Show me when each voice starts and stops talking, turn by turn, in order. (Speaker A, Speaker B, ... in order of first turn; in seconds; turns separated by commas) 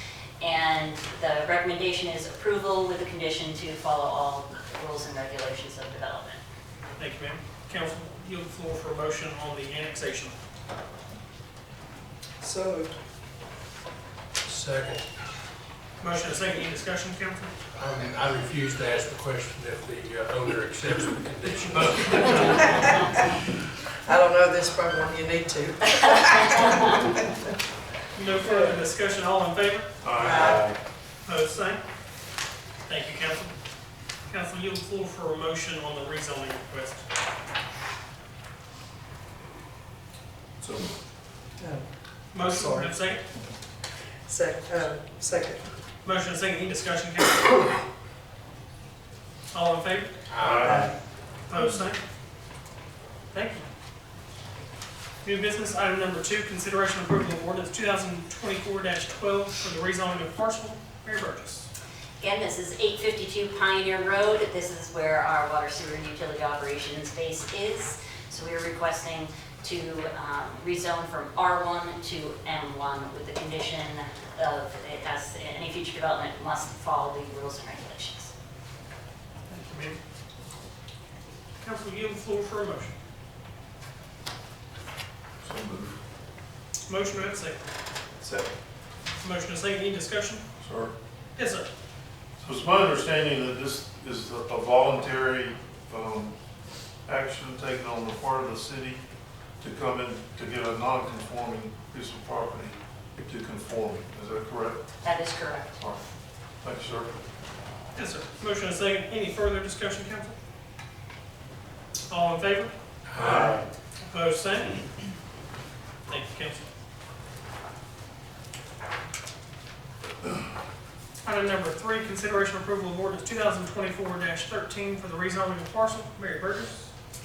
Speaker A: 0.4-6.4, Speaker B: 7.0-10.3, Speaker C: 12.4-12.9, Speaker D: 14.4-15.1, Speaker B: 16.0-17.5, Speaker D: 17.7-22.8, Speaker C: 24.0-27.0, Speaker B: 28.1-29.9, Speaker E: 30.0-30.8, Speaker C: 30.2-30.7, Speaker B: 31.2-31.8, Speaker B: 32.9-33.5, Speaker B: 34.3-37.0, Speaker E: 40.6-40.9, Speaker C: 41.6-42.9, Speaker B: 42.3-43.2, Speaker C: 44.3-45.6, Speaker B: 46.0-47.5, Speaker B: 49.5-50.1, Speaker D: 50.3-50.8, Speaker E: 50.4-50.9, Speaker C: 50.7-50.9, Speaker B: 51.5-52.0, Speaker B: 53.3-53.6, Speaker B: 55.2-61.7, Speaker A: 62.2-78.3, Speaker B: 79.5-80.0, Speaker B: 81.6-82.9, Speaker E: 85.4-86.0, Speaker B: 86.9-87.6, Speaker E: 88.2-88.5, Speaker B: 89.2-90.4, Speaker E: 90.6-90.9, Speaker B: 91.3-91.7, Speaker E: 92.4-96.3, Speaker E: 97.0-99.0, Speaker E: 99.6-104.9, Speaker A: 105.0-105.8, Speaker E: 105.8-106.0, Speaker E: 106.6-107.1, Speaker B: 107.9-110.3, Speaker B: 112.1-113.5, Speaker D: 113.1-113.6, Speaker E: 113.2-113.5, Speaker B: 114.1-114.8, Speaker B: 116.1-116.7, Speaker B: 121.2-126.9